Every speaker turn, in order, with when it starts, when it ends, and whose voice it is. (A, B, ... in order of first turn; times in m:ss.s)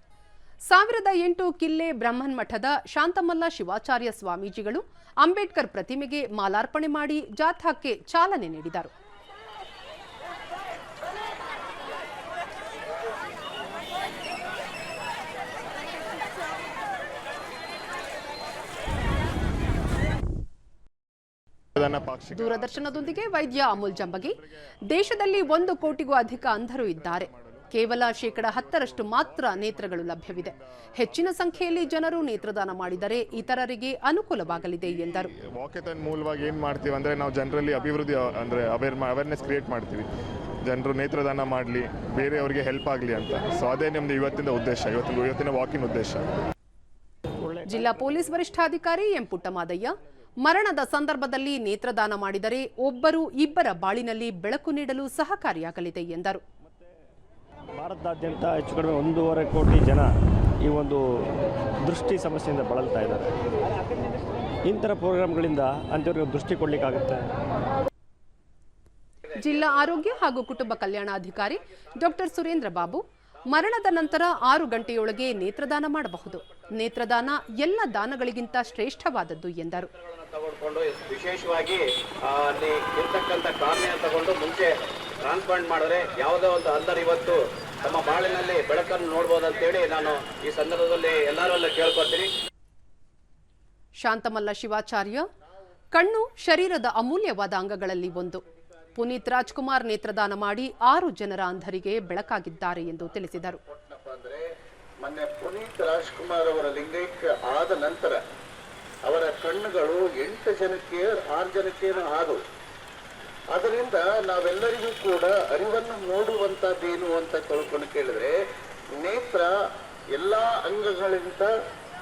0:00.7-0:08.9 A
0:21.8-0:24.5 B
0:22.4-0:24.4 A
0:24.9-0:35.3 A
0:25.1-0:33.5 B
0:34.8-0:40.1 B
0:40.6-0:46.3 B
0:47.4-0:48.1 C
0:47.7-0:56.4 A
0:57.8-1:03.4 C
1:04.7-1:07.3 C
1:09.3-1:19.9 A
1:20.0-1:32.3 D
1:34.0-1:35.3 A
1:35.9-1:38.4 A
1:39.0-1:43.6 A
1:43.7-1:44.5 E
1:45.0-1:48.2 E
1:49.0-1:52.4 E
1:53.5-1:58.4 E
1:58.9-1:59.5 E
2:00.1-2:01.5 E